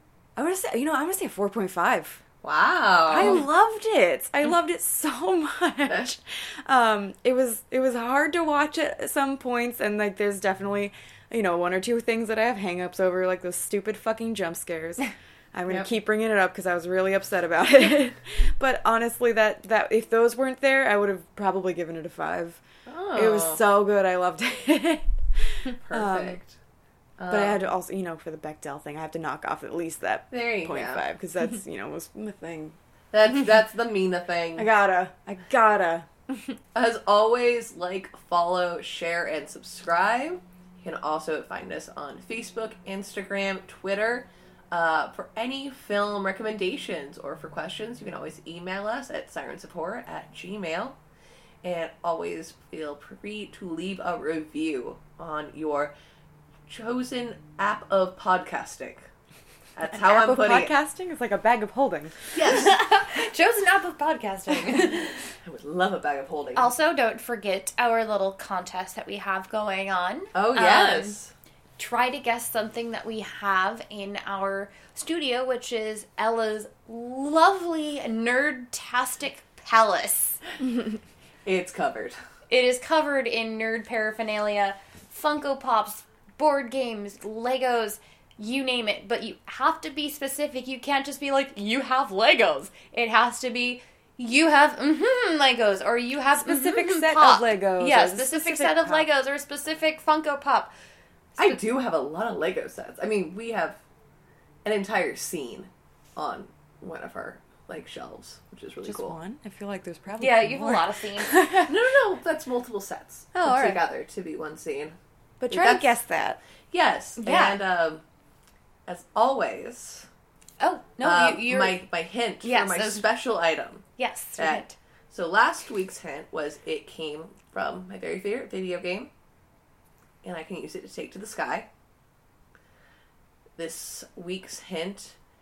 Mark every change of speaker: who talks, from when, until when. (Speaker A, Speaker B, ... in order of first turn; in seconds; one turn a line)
Speaker A: 0.3-2.2
Speaker B: 2.4-3.5
Speaker A: 3.1-22.6
Speaker B: 22.9-23.6
Speaker A: 23.1-26.4
Speaker B: 25.8-26.6
Speaker B: 27.2-27.6
Speaker A: 27.3-32.8
Speaker B: 30.3-31.0
Speaker B: 33.1-34.7
Speaker A: 34.6-36.1
Speaker B: 36.7-51.0
Speaker B: 51.6-55.9
Speaker B: 56.7-59.0
Speaker B: 59.8-60.7
Speaker A: 59.9-62.1
Speaker B: 62.3-62.8
Speaker C: 62.5-65.1
Speaker B: 65.4-66.7
Speaker C: 66.5-71.2
Speaker B: 70.3-71.3
Speaker C: 71.8-80.4
Speaker B: 81.4-82.2
Speaker C: 82.5-100.7
Speaker A: 96.4-99.1
Speaker B: 101.4-103.8
Speaker B: 104.6-109.2
Speaker A: 108.8-111.7
Speaker C: 110.2-111.3
Speaker B: 111.7-115.0
Speaker A: 113.3-113.8
Speaker A: 115.4-116.4
Speaker B: 115.5-116.0
Speaker B: 116.7-118.0
Speaker C: 117.2-117.6
Speaker B: 118.8-120.1
Speaker C: 120.6-121.8
Speaker B: 121.0-123.8
Speaker C: 122.4-123.0
Speaker C: 124.0-124.8
Speaker B: 124.4-129.1
Speaker B: 130.2-131.7
Speaker B: 133.6-135.2